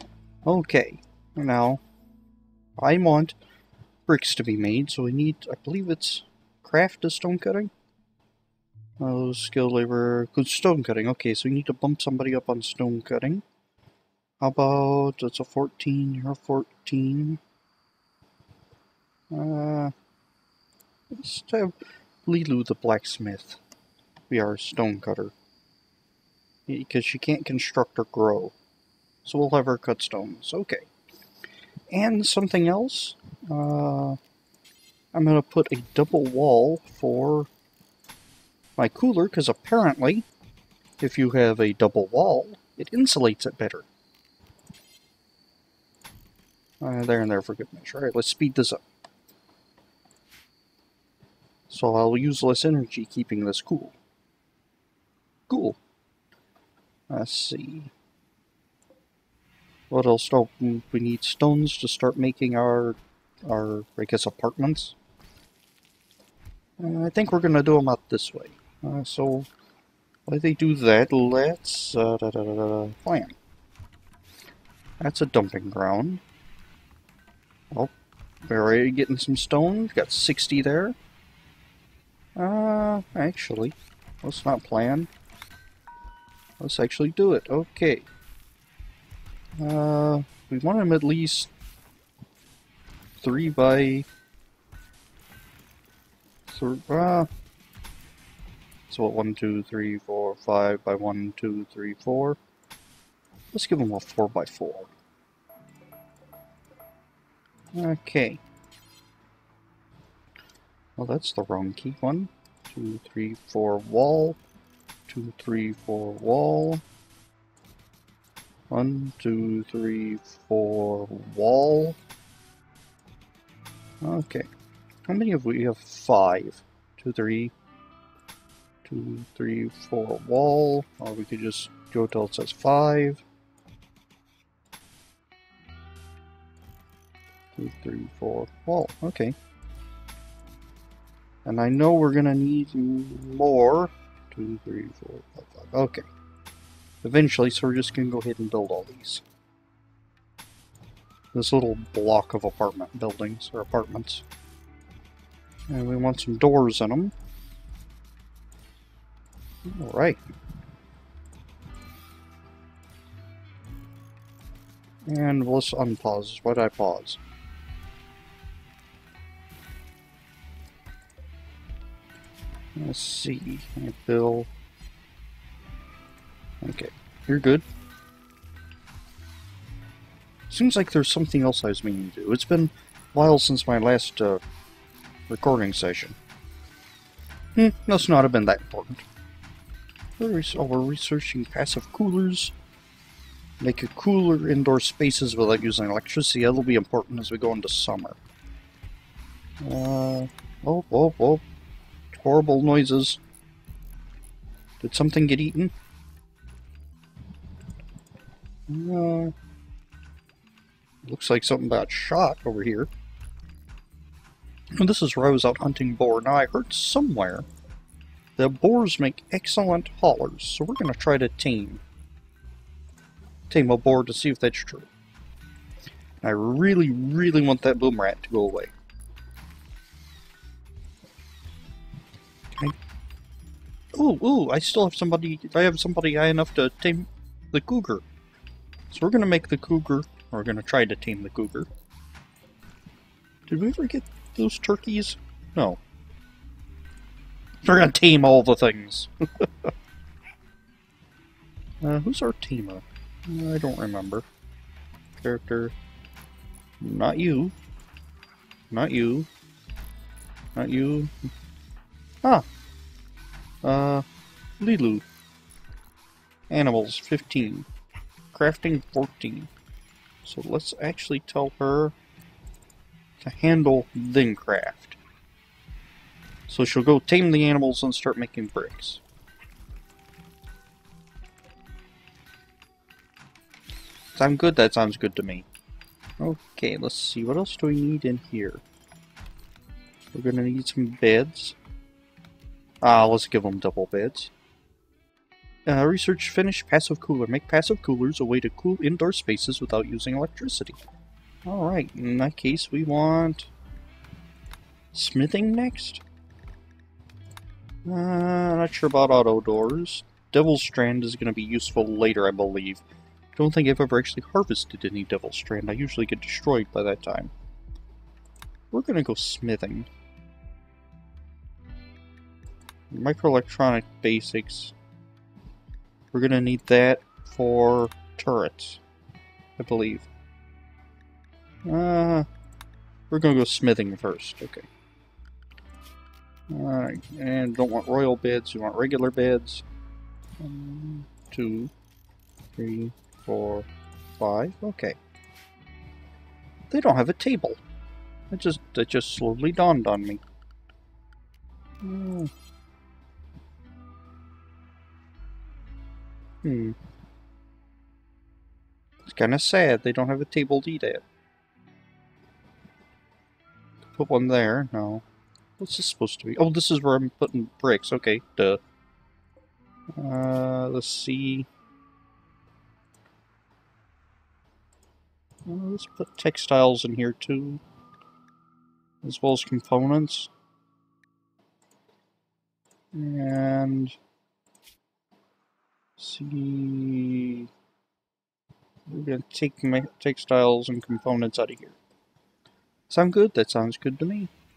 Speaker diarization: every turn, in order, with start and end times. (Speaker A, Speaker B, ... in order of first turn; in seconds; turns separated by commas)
Speaker A: 0.4-1.8, Speaker A: 2.8-3.4, Speaker A: 4.0-7.7, Speaker A: 9.0-13.4, Speaker A: 14.4-17.4, Speaker A: 19.3-19.9, Speaker A: 21.1-23.6, Speaker A: 24.3-25.3, Speaker A: 26.7-28.5, Speaker A: 29.2-30.9, Speaker A: 31.9-34.2, Speaker A: 35.1-37.5, Speaker A: 38.8-40.2, Speaker A: 41.0-43.9, Speaker A: 46.8-48.8, Speaker A: 51.7-54.0, Speaker A: 55.5-55.8, Speaker A: 57.1-57.9, Speaker A: 59.9-64.9, Speaker A: 66.8-69.5, Speaker A: 70.3-73.3, Speaker A: 75.0-76.2, Speaker A: 78.5-81.0, Speaker A: 82.3-85.1, Speaker A: 86.6-88.0, Speaker A: 89.6-91.5, Speaker A: 93.2-94.1, Speaker A: 96.5-97.3, Speaker A: 98.9-102.4, Speaker A: 103.5-104.9, Speaker A: 107.7-108.4, Speaker A: 111.0-114.4, Speaker A: 115.1-116.8, Speaker A: 118.7-122.0, Speaker A: 124.0-124.5, Speaker A: 125.1-127.5, Speaker A: 128.8-133.2, Speaker A: 137.6-139.3, Speaker A: 141.4-146.1, Speaker A: 147.0-149.2, Speaker A: 151.3-154.2, Speaker A: 155.7-157.1, Speaker A: 159.7-160.2, Speaker A: 165.1-167.2, Speaker A: 172.8-174.5, Speaker A: 176.6-177.6, Speaker A: 180.5-184.4, Speaker A: 185.3-186.2, Speaker A: 187.5-189.0, Speaker A: 190.2-192.5, Speaker A: 193.6-198.2, Speaker A: 199.6-201.4, Speaker A: 202.1-203.2, Speaker A: 204.8-205.7, Speaker A: 208.7-209.3, Speaker A: 211.0-212.9, Speaker A: 214.8-217.4, Speaker A: 218.4-221.8, Speaker A: 223.5-224.9, Speaker A: 226.2-228.7, Speaker A: 233.9-238.0, Speaker A: 238.9-241.7, Speaker A: 243.5-245.8, Speaker A: 247.6-249.7, Speaker A: 251.8-254.2, Speaker A: 255.2-255.7, Speaker A: 256.8-257.6, Speaker A: 258.7-259.3, Speaker A: 260.6-261.3, Speaker A: 263.6-264.0, Speaker A: 264.6-265.1, Speaker A: 266.5-267.7, Speaker A: 268.3-269.5, Speaker A: 270.2-271.9, Speaker A: 273.2-275.0, Speaker A: 276.5-279.0, Speaker A: 284.1-285.4, Speaker A: 286.2-288.6, Speaker A: 290.1-291.6, Speaker A: 292.8-294.3, Speaker A: 295.6-300.8, Speaker A: 301.4-303.5, Speaker A: 304.9-306.0, Speaker A: 307.8-312.8, Speaker A: 313.3-317.3, Speaker A: 318.7-319.9, Speaker A: 322.9-324.7, Speaker A: 326.1-328.8, Speaker A: 329.6-330.1, Speaker A: 331.6-332.3, Speaker A: 333.1-334.7, Speaker A: 336.5-339.6, Speaker A: 340.4-341.7, Speaker A: 342.6-343.7, Speaker A: 344.2-345.0, Speaker A: 346.7-347.6, Speaker A: 348.3-350.2, Speaker A: 351.8-352.3, Speaker A: 356.4-356.8, Speaker A: 359.0-361.0, Speaker A: 363.9-365.0, Speaker A: 365.6-368.6, Speaker A: 369.9-371.5, Speaker A: 375.4-377.6, Speaker A: 379.0-380.3, Speaker A: 382.9-383.9, Speaker A: 386.0-387.5, Speaker A: 388.9-391.8, Speaker A: 392.9-394.3